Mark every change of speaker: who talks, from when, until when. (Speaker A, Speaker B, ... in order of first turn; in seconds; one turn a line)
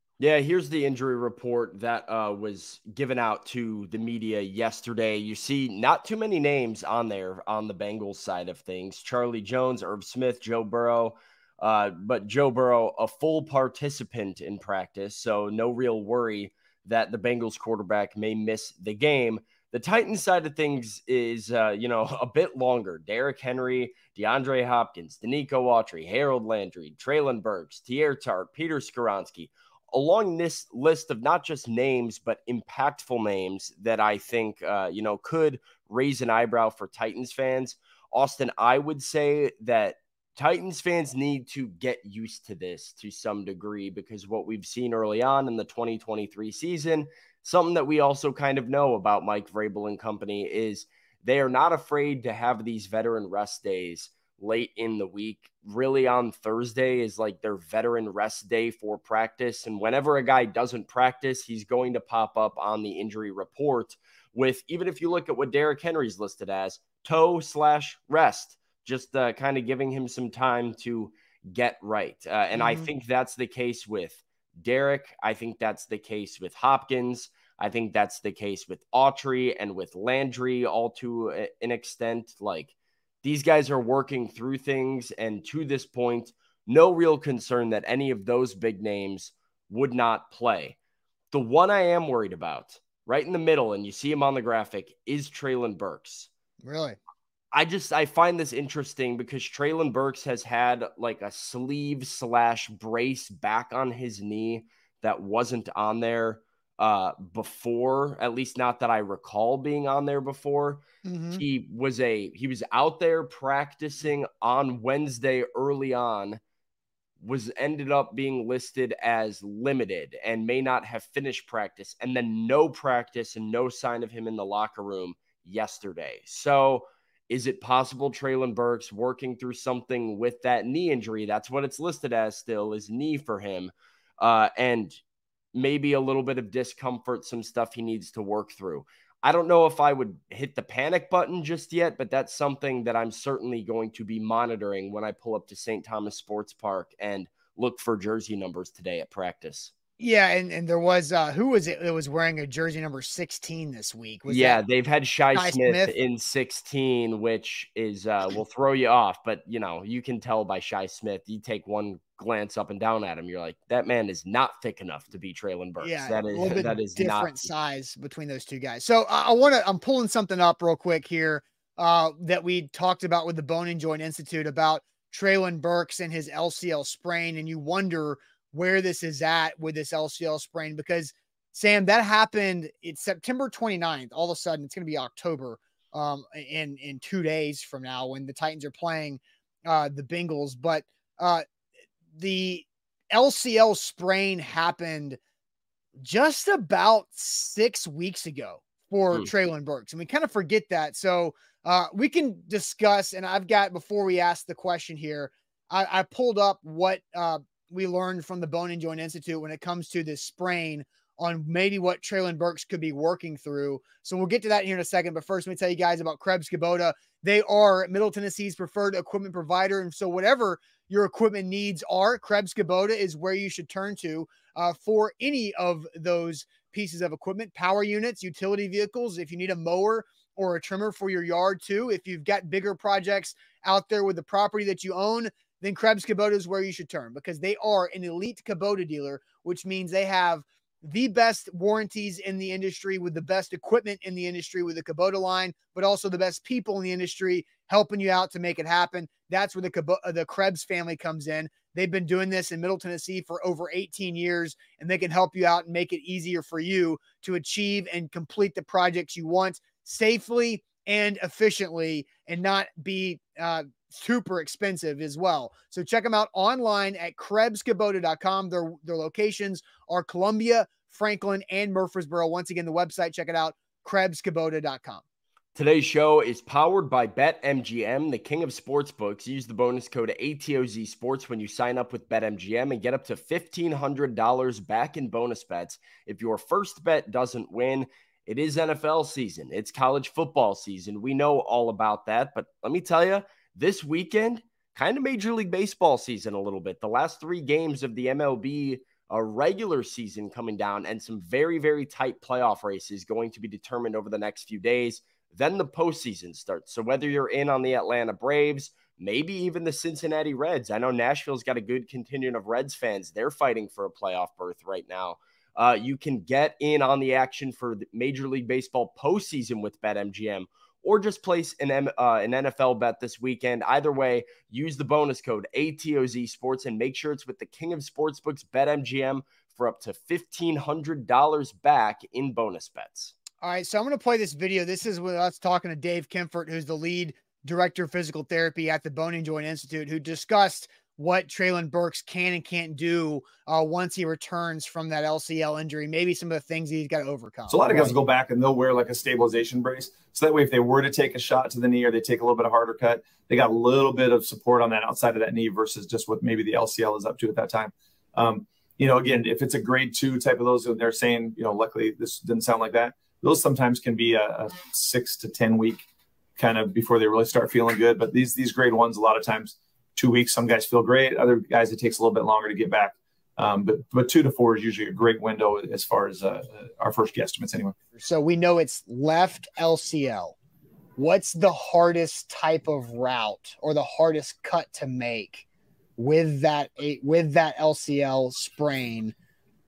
Speaker A: 0.2-90.8
Speaker B: 72.5-72.9
Speaker A: 91.3-96.3
Speaker B: 96.6-97.0
Speaker A: 97.5-110.8
Speaker B: 111.0-111.4
Speaker A: 111.3-116.4
Speaker A: 117.2-135.0
Speaker A: 135.5-149.7
Speaker B: 150.0-154.6
Speaker A: 154.3-167.4
Speaker B: 155.3-155.9
Speaker B: 165.8-191.4
Speaker B: 192.1-195.2
Speaker B: 196.0-275.0
Speaker A: 275.6-333.1
Speaker B: 333.4-348.0
Speaker C: 347.5-365.8
Speaker C: 366.4-377.8
Speaker B: 378.0-380.4
Speaker B: 381.0-385.5
Speaker B: 386.0-389.1